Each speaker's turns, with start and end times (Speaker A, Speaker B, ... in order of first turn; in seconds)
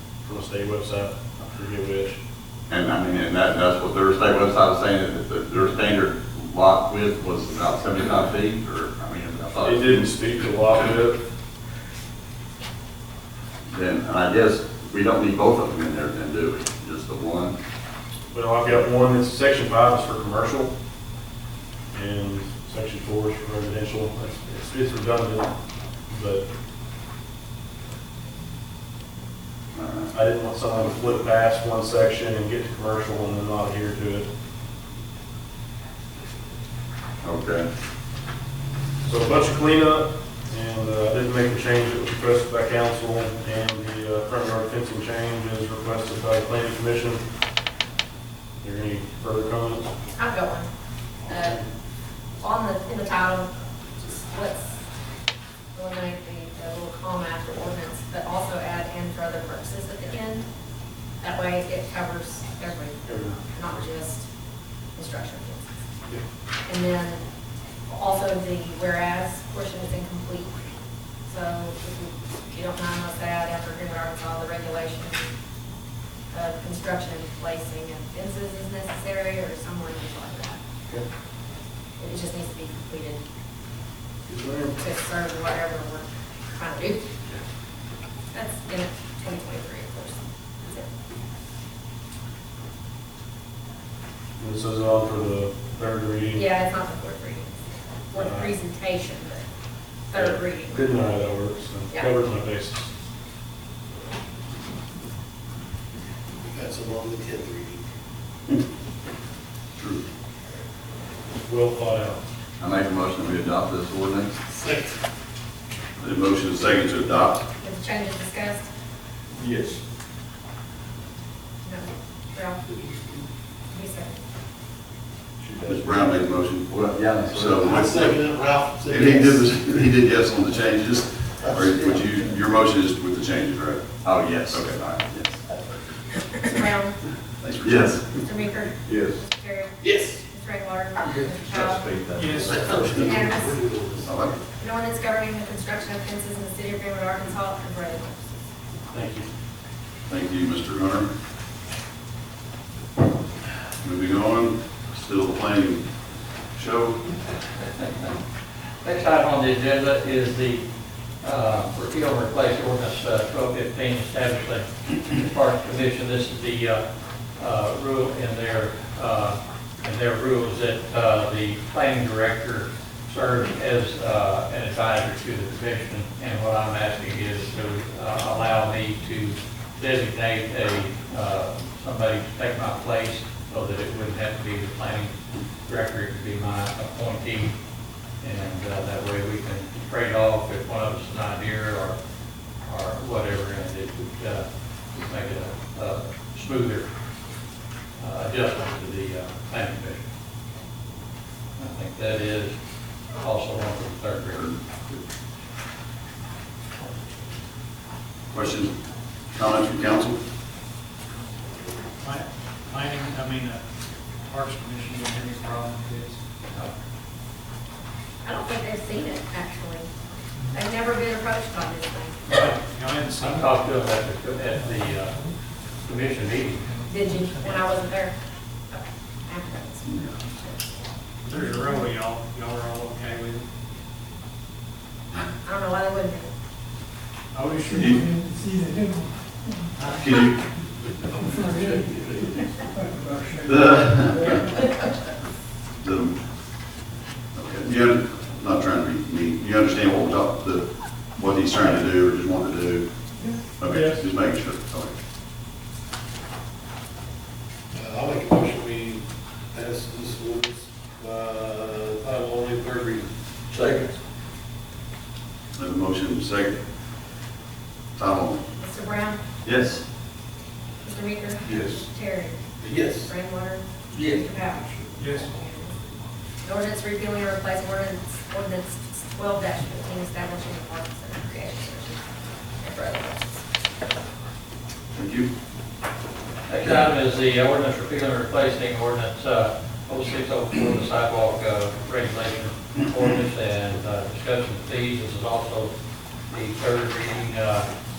Speaker A: 0.2-2.2, 9.6-11.2, 18.3-20.7, 21.9-25.5, 26.1-26.5, 30.1-34.3, 39.0-47.2, 48.6-49.9, 63.1-63.4, 84.3-84.8, 94.4-96.5, 98.2-98.5, 100.2-102.9, 111.4-112.2
Speaker B: 2.7-10.0, 13.7-17.6, 29.8-30.1, 37.2-37.7, 112.6-114.4, 126.7-127.6, 134.0-135.3, 137.6-138.2, 138.8-139.2, 141.5-142.7, 263.5-263.9, 269.4-269.8
Speaker C: 50.1-50.7, 51.3-51.6, 52.4-54.8, 55.7-60.5, 61.2-64.3, 65.0-65.7, 66.7-67.2, 67.9-70.5, 71.3-75.3, 76.3-80.6, 82.0-83.2, 84.8-87.1, 88.3-90.9, 96.3-97.5, 98.1-99.4, 100.1-100.8, 117.6-118.7, 121.6-122.6, 123.7-124.2, 136.4-137.0, 138.1-142.0, 142.9-143.6, 144.6-148.4, 218.2-219.9, 220.5-222.2, 226.9-228.1, 228.7-230.7, 235.4-236.3, 268.6-269.2, 270.8-275.8, 276.4-282.0, 282.6-283.4
Speaker D: 106.4-107.8, 114.5-115.0, 119.4-119.8, 125.4-126.0, 127.5-129.7, 131.4-132.0, 139.8-140.2, 142.4-144.4, 241.6-242.0, 257.7-263.1, 272.6-273.1, 273.9-274.9
Speaker E: 109.8-110.0, 116.0-117.4, 125.7-126.8, 127.3-128.2, 128.9-133.9, 137.4-138.2, 144.1-144.3, 150.1-151.1, 153.8-155.9, 156.5-157.1, 208.3-208.7, 209.3-210.2, 237.7-238.0, 239.9-240.4, 243.5-244.4, 245.8-246.2, 247.3-252.9, 253.6-254.9, 265.6-266.6, 268.0-268.4, 284.9-285.3
Speaker F: 142.1-142.8, 212.0-216.2, 222.3-223.5, 224.5-225.3, 226.7-227.6, 231.2-233.5, 237.3-239.0, 239.8-240.0, 241.2-242.0, 242.7-244.4, 275.0-275.4
Speaker G: 158.8-160.7, 161.2-166.8, 167.4-187.5, 188.2-192.0, 192.7-196.9, 198.0-200.0, 201.6-202.6, 203.1-204.6, 223.2-225.2, 225.8-226.7, 286.5-295.7, 296.3-297.7